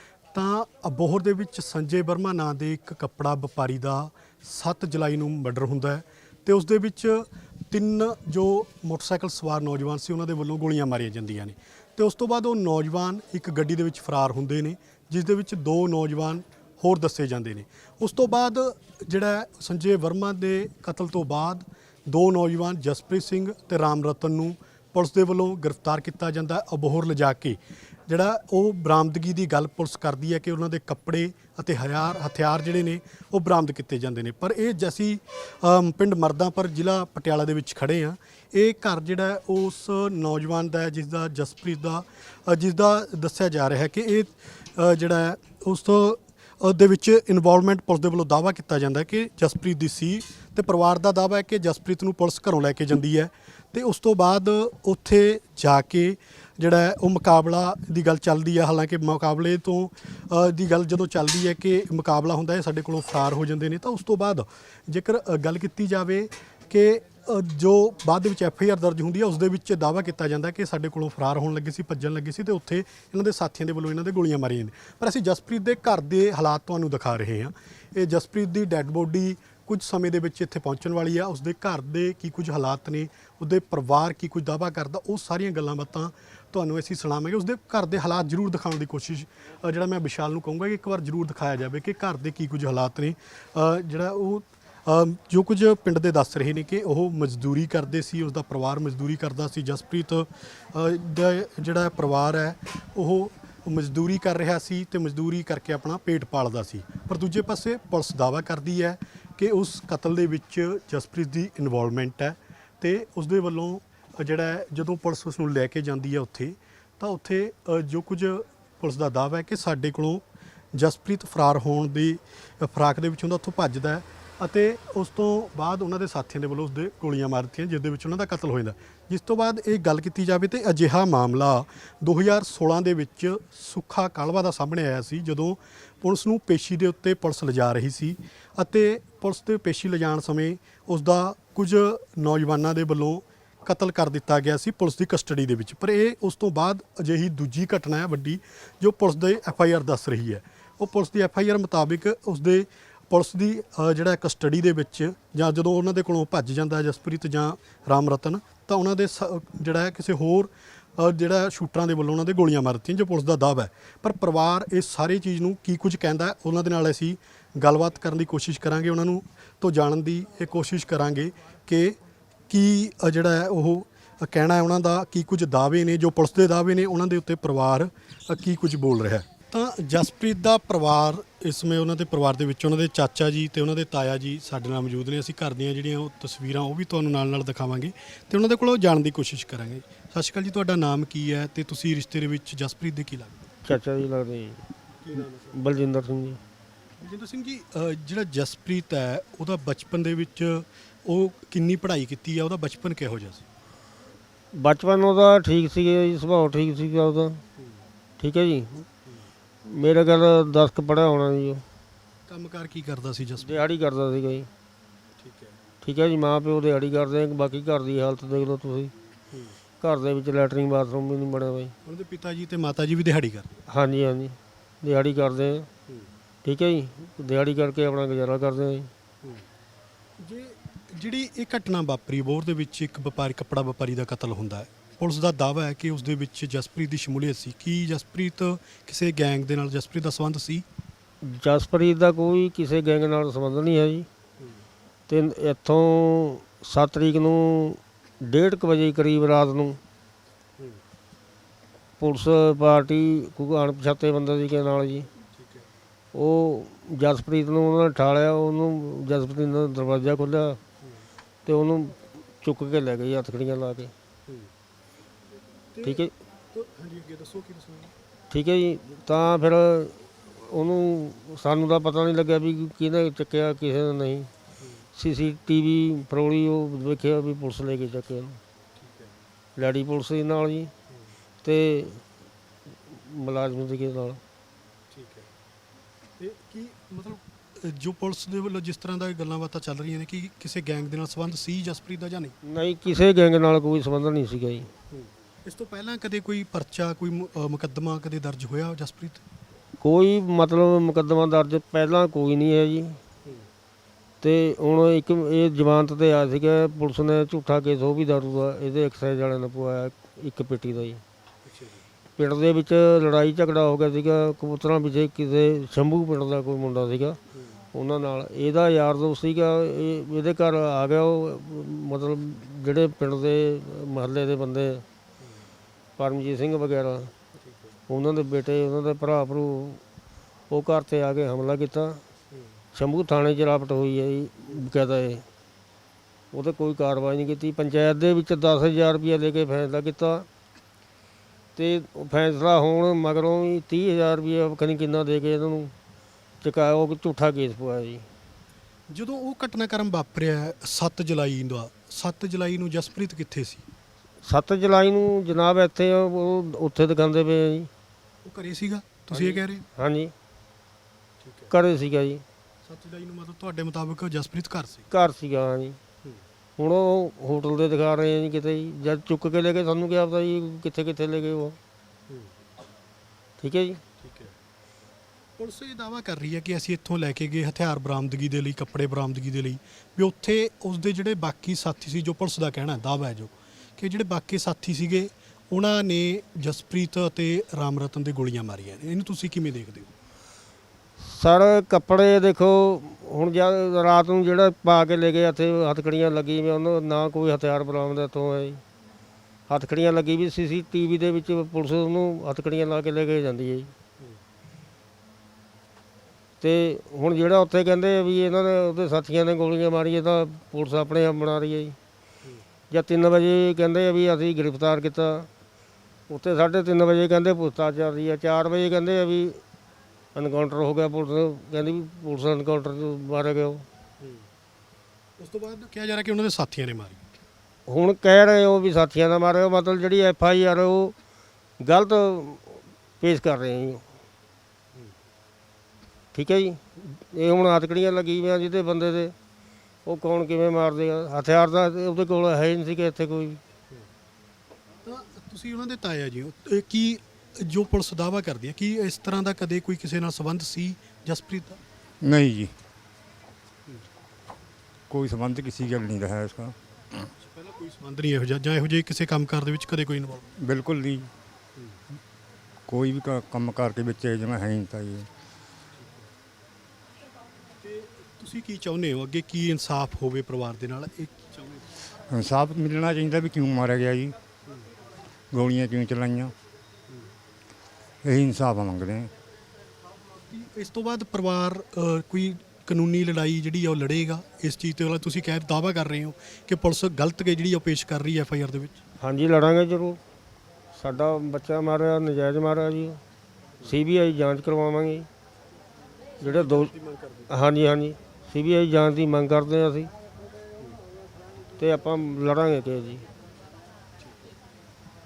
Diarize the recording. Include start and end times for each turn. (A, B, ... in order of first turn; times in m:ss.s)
0:00.3-2:52.0 A
2:52.5-3:13.6 A
3:13.6-3:14.7 B
3:15.0-3:15.6 A
3:15.5-3:16.4 B
3:17.0-3:23.5 A
3:24.5-3:27.4 B
3:28.2-3:28.9 B
3:29.6-3:31.6 B
3:32.3-3:33.6 A
3:33.4-3:34.5 B
3:35.2-3:35.6 A
3:35.8-3:38.9 B
3:39.3-3:39.6 A
3:39.8-3:41.8 B
3:41.8-3:43.6 A
3:43.7-3:45.7 B
3:46.4-3:48.9 B
3:50.2-4:00.6 A
4:01.2-4:04.1 B
4:05.1-4:09.8 B
4:12.0-4:15.1 B
4:15.4-4:15.7 A
4:16.1-4:20.6 B
4:21.4-4:23.9 B
4:25.7-4:28.0 A
4:25.8-4:26.1 B
4:28.3-4:34.3 B
4:34.6-4:34.9 A
4:35.0-4:38.4 B
4:38.8-4:39.1 A
4:39.6-4:40.7 B
4:41.4-4:42.0 B
4:42.9-4:44.2 B
4:44.9-4:45.3 A
4:46.2-4:52.4 A
4:52.4-4:54.7 B
4:54.9-4:59.2 A
4:59.8-5:03.0 B
5:04.2-5:11.0 B
5:11.5-5:11.8 A
5:12.2-5:17.2 B
5:17.3-5:17.6 A
5:17.7-5:24.8 B
5:26.0-5:27.1 B
5:27.4-5:27.7 A
5:27.9-5:29.8 B
5:30.5-5:32.0 B
5:32.7-5:35.3 B
5:36.3-5:40.3 B
5:41.6-5:45.7 B
5:46.4-5:48.1 B
5:48.9-5:53.7 A
5:54.2-5:57.7 B
5:58.2-5:59.6 A
5:59.1-6:00.1 B
6:01.2-6:01.5 A
6:01.5-6:02.2 B
6:02.6-6:04.9 A
6:04.9-6:05.8 B
6:06.6-6:11.6 B
6:12.1-6:12.3 A
6:13.4-6:13.8 B
6:14.0-6:14.4 A
6:15.4-6:29.9 A
6:31.0-6:38.6 B
6:39.5-6:43.7 B
6:46.4-6:51.8 B
6:52.7-6:55.3 B
6:56.1-6:59.4 B
7:00.2-7:03.7 B
7:04.0-7:04.3 A
7:05.2-7:07.0 A
7:07.7-7:11.0 B
7:11.6-7:13.9 B
7:16.1-7:19.2 B
7:19.8-7:23.4 B
7:24.8-7:31.6 A
7:32.0-7:32.5 C
7:34.9-7:36.6 C
7:37.2-7:40.3 A
7:40.4-7:41.1 C
7:42.7-7:45.1 C
7:47.6-7:51.7 A
7:52.1-7:54.2 C
7:55.3-7:56.3 C
7:58.0-7:59.1 C
8:00.3-8:08.8 A
8:09.0-8:10.0 B
8:10.7-8:13.0 B
8:13.6-8:15.1 B
8:16.2-8:17.3 A
8:16.2-8:16.7 B
8:17.3-8:19.9 B
8:21.6-8:23.1 B